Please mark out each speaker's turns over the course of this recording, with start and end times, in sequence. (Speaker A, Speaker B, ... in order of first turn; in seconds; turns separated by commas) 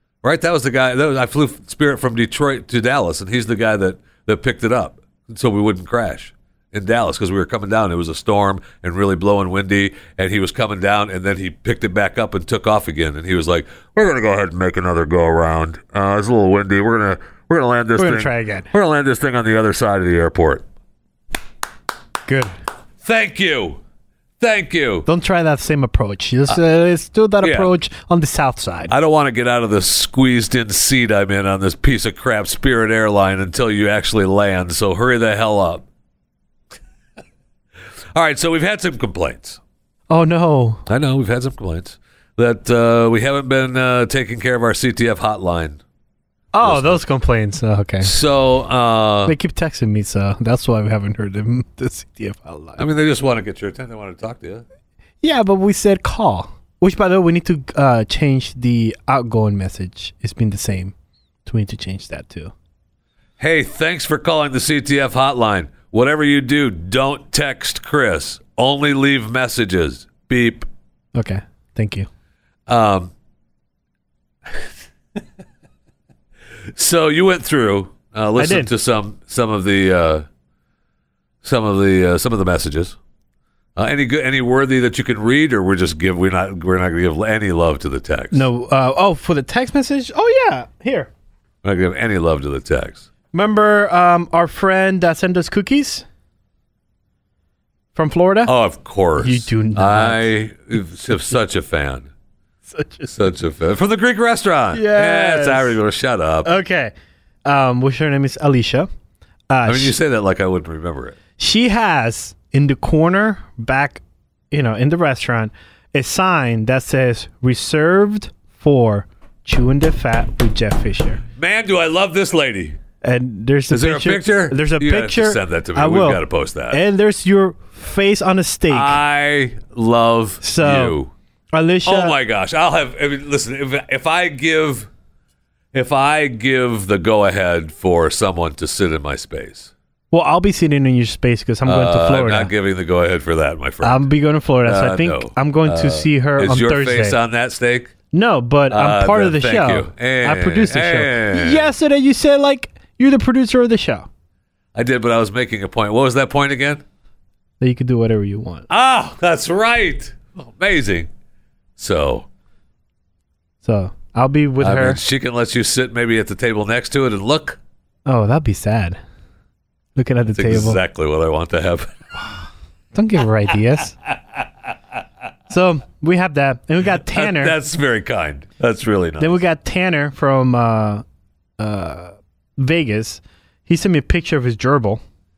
Speaker A: 0.2-20.6, Speaker B: 18.0-18.7, Speaker B: 22.3-22.5, Speaker A: 23.0-23.8, Speaker A: 24.4-25.1, Speaker B: 25.1-28.9, Speaker A: 27.4-27.7, Speaker A: 28.9-35.9, Speaker A: 38.1-39.6, Speaker B: 40.1-40.8, Speaker A: 40.9-45.8, Speaker B: 46.5-48.1, Speaker A: 46.6-47.0, Speaker A: 48.0-49.4, Speaker B: 49.3-52.8, Speaker A: 52.8-54.6, Speaker B: 55.2-60.9, Speaker B: 61.5-62.5, Speaker A: 63.4-70.7, Speaker B: 71.2-72.1, Speaker A: 72.7-73.1, Speaker A: 76.8-80.2, Speaker B: 78.4-78.7, Speaker A: 81.4-83.0, Speaker A: 83.8-88.5, Speaker B: 88.3-91.1, Speaker A: 91.6-93.1, Speaker B: 93.3-96.0, Speaker B: 98.0-98.5, Speaker A: 98.5-102.1, Speaker B: 99.2-100.3, Speaker B: 102.7-103.1, Speaker A: 103.1-106.5, Speaker B: 104.7-105.8, Speaker B: 106.5-106.9, Speaker B: 107.5-108.9, Speaker B: 109.5-109.9, Speaker A: 109.7-111.2, Speaker B: 111.4-121.2, Speaker A: 121.4-122.8, Speaker B: 123.0-129.0, Speaker A: 123.7-126.8, Speaker A: 128.7-131.1, Speaker B: 130.4-130.9, Speaker B: 131.5-132.2, Speaker A: 131.8-134.9, Speaker A: 135.7-139.7, Speaker B: 140.1-142.5, Speaker A: 141.7-144.1, Speaker B: 143.8-147.2, Speaker A: 144.6-147.9, Speaker B: 148.1-154.1, Speaker A: 148.7-151.7, Speaker A: 154.7-156.8, Speaker B: 157.6-158.7, Speaker A: 158.7-161.1, Speaker A: 161.8-162.3, Speaker B: 163.6-165.0, Speaker A: 164.6-167.6, Speaker B: 168.1-169.0, Speaker B: 170.0-170.8, Speaker A: 170.3-171.9, Speaker B: 172.9-173.9, Speaker B: 175.5-177.6, Speaker A: 177.1-179.4, Speaker B: 179.2-181.0, Speaker B: 181.6-185.0